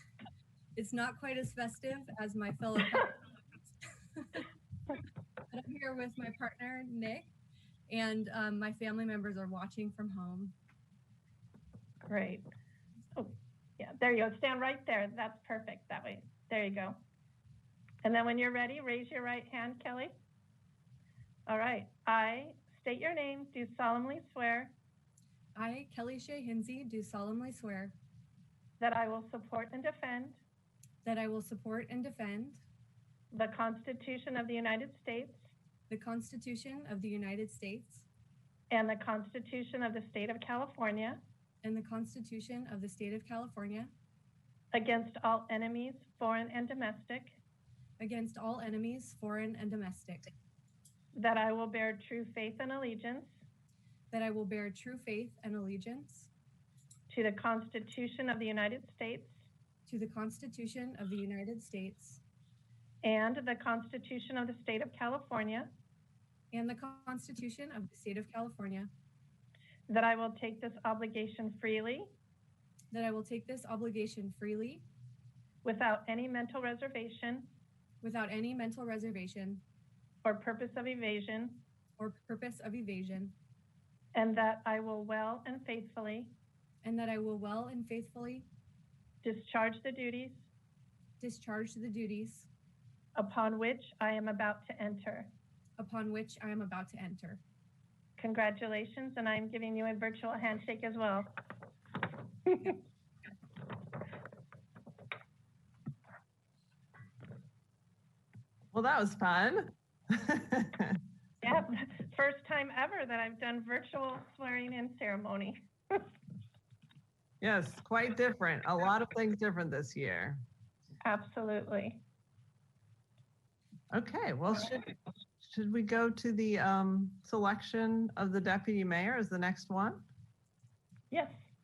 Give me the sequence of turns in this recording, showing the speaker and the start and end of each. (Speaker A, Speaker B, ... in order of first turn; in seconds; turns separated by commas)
Speaker A: 0.8-3.2, Speaker A: 4.2-4.4, Speaker A: 5.5-7.3, Speaker A: 7.9-10.6, Speaker B: 12.1-12.5, Speaker B: 13.2-17.0, Speaker B: 18.0-20.1, Speaker B: 21.5-24.8, Speaker A: 25.6-28.0, Speaker B: 28.8-30.4, Speaker A: 31.0-32.6, Speaker B: 33.3-35.4, Speaker A: 35.9-38.0, Speaker B: 38.7-41.2, Speaker A: 41.6-43.9, Speaker B: 44.7-47.4, Speaker A: 48.0-50.3, Speaker B: 51.1-53.4, Speaker A: 54.1-56.3, Speaker B: 57.1-59.4, Speaker A: 59.9-62.2, Speaker B: 63.0-65.7, Speaker A: 66.5-68.9, Speaker B: 69.9-72.1, Speaker A: 72.9-74.8, Speaker B: 75.6-77.5, Speaker A: 78.0-79.6, Speaker B: 80.2-81.6, Speaker A: 82.0-83.3, Speaker B: 84.2-86.3, Speaker A: 86.8-88.5, Speaker B: 89.2-90.5, Speaker A: 91.2-92.5, Speaker B: 93.2-95.3, Speaker A: 95.8-97.4, Speaker B: 98.2-101.3, Speaker B: 102.5-102.8, Speaker C: 108.7-111.0, Speaker B: 111.4-116.1, Speaker C: 117.4-120.4, Speaker B: 121.0-122.0, Speaker C: 123.9-130.1